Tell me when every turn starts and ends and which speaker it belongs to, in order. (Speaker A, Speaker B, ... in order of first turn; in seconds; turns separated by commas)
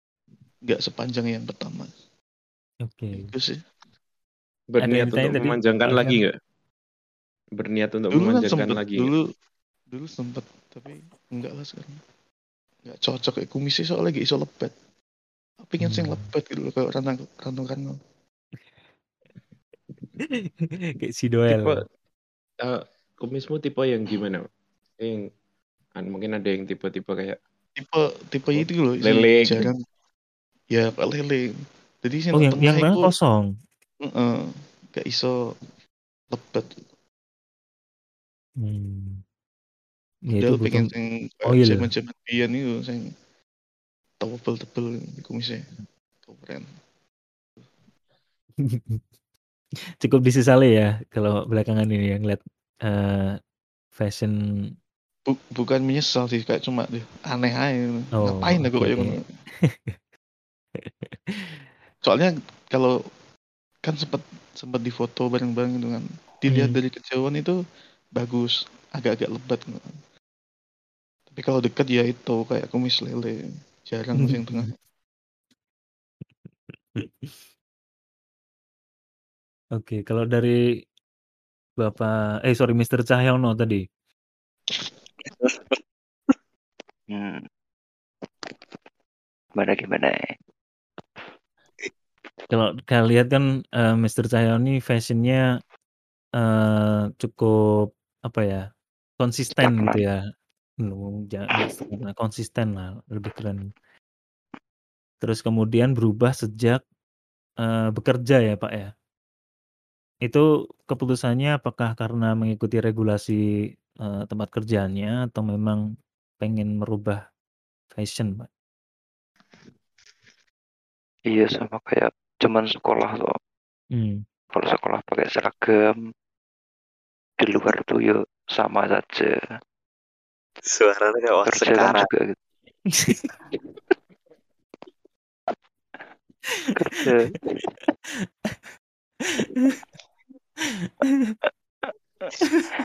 Speaker A: 0.6-1.9, Speaker B: 2.8-3.3, Speaker A: 3.1-3.6, Speaker C: 4.7-6.3, Speaker B: 4.8-6.2, Speaker C: 7.6-9.1, Speaker A: 8.1-9.3, Speaker A: 9.9-12.0, Speaker A: 12.8-14.7, Speaker A: 15.6-18.0, Speaker B: 15.8-16.3, Speaker B: 20.2-21.8, Speaker C: 21.5-21.9, Speaker C: 22.6-24.5, Speaker C: 25.0-25.3, Speaker C: 26.0-27.4, Speaker A: 27.8-29.8, Speaker C: 28.5-29.7, Speaker A: 30.7-33.1, Speaker B: 32.4-33.5, Speaker A: 34.0-35.5, Speaker A: 36.3-36.8, Speaker B: 38.6-39.2, Speaker B: 40.3-40.9, Speaker A: 40.4-43.1, Speaker B: 41.5-41.9, Speaker A: 44.2-45.6, Speaker A: 46.2-46.7, Speaker B: 48.6-49.0, Speaker B: 50.0-53.4, Speaker B: 54.0-54.4, Speaker A: 55.3-59.2, Speaker B: 58.2-60.0, Speaker B: 60.8-61.6, Speaker A: 62.0-63.0, Speaker A: 63.8-67.6, Speaker B: 66.5-66.8, Speaker A: 68.1-70.0, Speaker A: 71.3-74.7, Speaker B: 74.2-74.7, Speaker B: 77.0-77.3, Speaker B: 79.8-80.5, Speaker B: 81.8-83.9, Speaker D: 85.2-85.8, Speaker E: 87.1-87.4, Speaker E: 89.5-90.3, Speaker B: 92.5-95.4, Speaker B: 96.4-98.7, Speaker B: 99.2-100.2, Speaker E: 99.6-100.0, Speaker B: 100.8-103.6, Speaker B: 105.2-106.8, Speaker B: 107.6-108.9, Speaker B: 110.2-113.4, Speaker B: 114.0-115.8, Speaker B: 116.4-117.2, Speaker B: 117.9-118.5, Speaker E: 121.3-123.3, Speaker B: 123.9-124.2, Speaker E: 124.5-126.0, Speaker E: 127.4-129.5, Speaker D: 130.7-132.1, Speaker E: 131.4-132.4, Speaker B: 133.0-133.3, Speaker E: 136.8-137.6, Speaker B: 139.3-139.8, Speaker B: 140.8-141.3, Speaker B: 142.4-142.7